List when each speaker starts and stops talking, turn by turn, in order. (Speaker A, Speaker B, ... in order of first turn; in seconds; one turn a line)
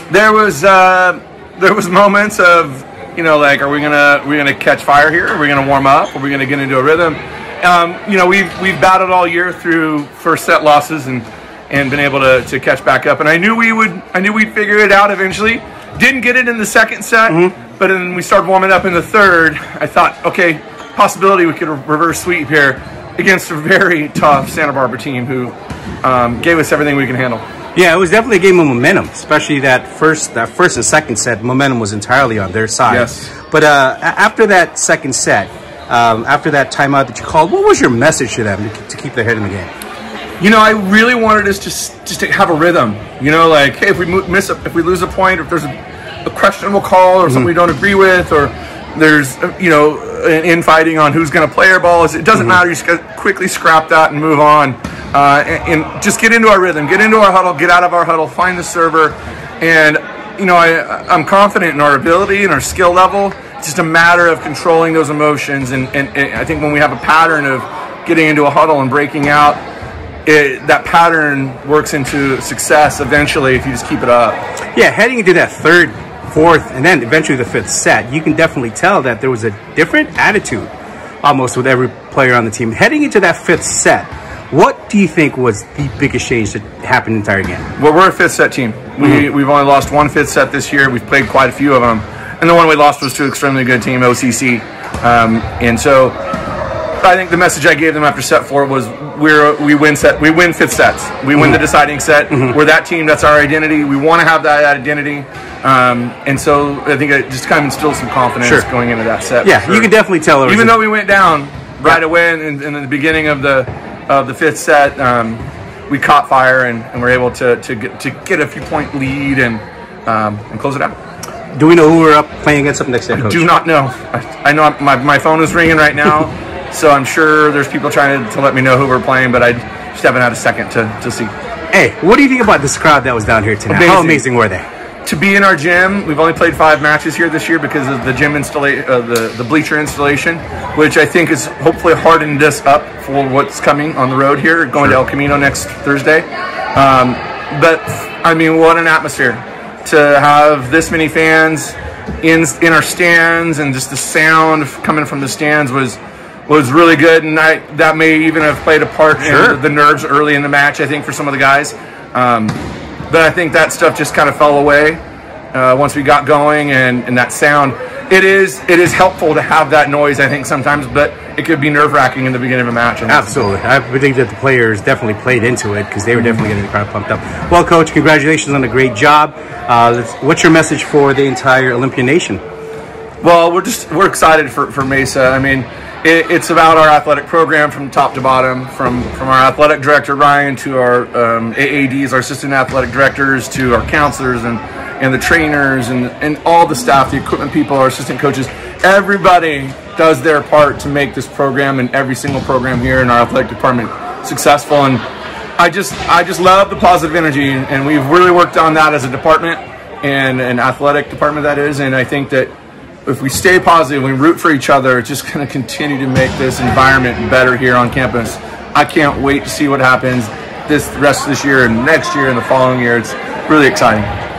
Speaker A: 0.1-27.4
Speaker B: 17.3-17.6
Speaker B: 27.8-39.7
Speaker A: 32.9-33.3
Speaker A: 40.4-45.7
Speaker A: 46.2-69.6
Speaker A: 70.3-74.4
Speaker B: 74.8-80.7
Speaker B: 81.2-87.7
Speaker A: 87.8-96.2
Speaker A: 97.0-109.9
Speaker B: 109.4-110.8
Speaker A: 110.5-120.9
Speaker B: 121.5-123.5
Speaker A: 123.2-131.3
Speaker B: 131.7-134.7
Speaker A: 133.7-134.2
Speaker A: 135.1-162.6
Speaker B: 159.2-159.6
Speaker A: 163.1-165.0
Speaker A: 165.5-173.3
Speaker B: 173.1-182.4
Speaker A: 183.2-205.0
Speaker A: 205.6-212.5
Speaker A: 213.1-224.1